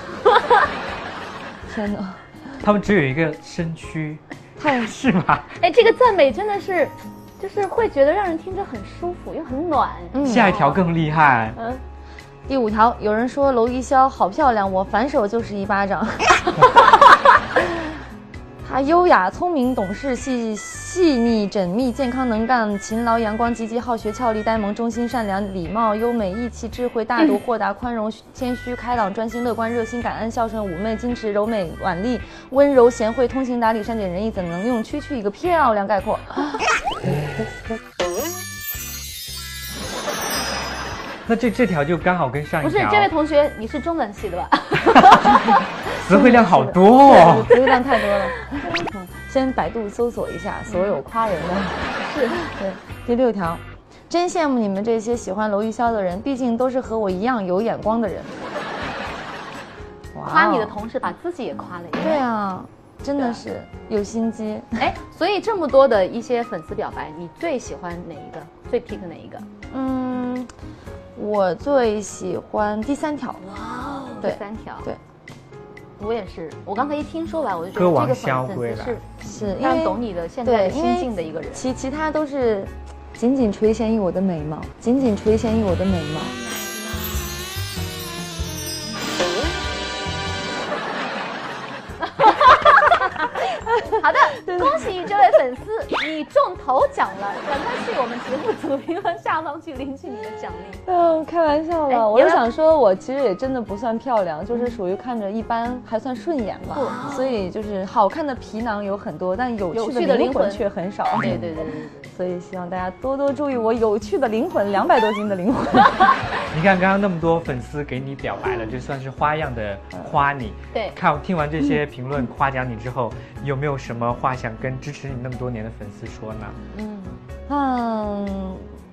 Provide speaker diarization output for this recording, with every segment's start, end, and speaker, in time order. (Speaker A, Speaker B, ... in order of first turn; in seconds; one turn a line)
Speaker A: 0.3-0.6
Speaker B: 1.7-2.2
Speaker C: 2.6-5.5
Speaker B: 4.6-4.9
Speaker A: 5.5-10.8
Speaker B: 10.1-10.5
Speaker C: 10.2-11.6
Speaker A: 11.6-11.8
Speaker B: 12.5-16.5
Speaker B: 18.6-36.6
Speaker C: 41.2-43.1
Speaker A: 42.6-45.6
Speaker C: 44.9-47.5
Speaker B: 45.9-58.4
Speaker A: 47.1-48.7
Speaker A: 50.7-51.0
Speaker A: 51.9-52.4
Speaker B: 60.1-60.7
Speaker A: 60.2-62.2
Speaker B: 62.0-64.8
Speaker A: 63.1-63.4
Speaker A: 64.8-69.5
Speaker B: 69.7-70.5
Speaker B: 71.2-73.5
Speaker A: 74.1-74.9
Speaker B: 74.2-75.0
Speaker A: 76.0-79.1
Speaker C: 77.7-79.0
Speaker B: 79.2-86.4
Speaker A: 79.6-81.7
Speaker A: 92.0-100.8
Speaker B: 93.6-94.9
Speaker B: 100.9-111.5
Speaker A: 101.9-102.4
Speaker A: 104.5-104.8
Speaker A: 106.7-107.1
Speaker A: 109.7-112.1
Speaker C: 111.2-111.5
Speaker B: 112.1-116.1
Speaker C: 116.5-126.6
Speaker A: 126.7-127.2
Speaker B: 127.5-128.7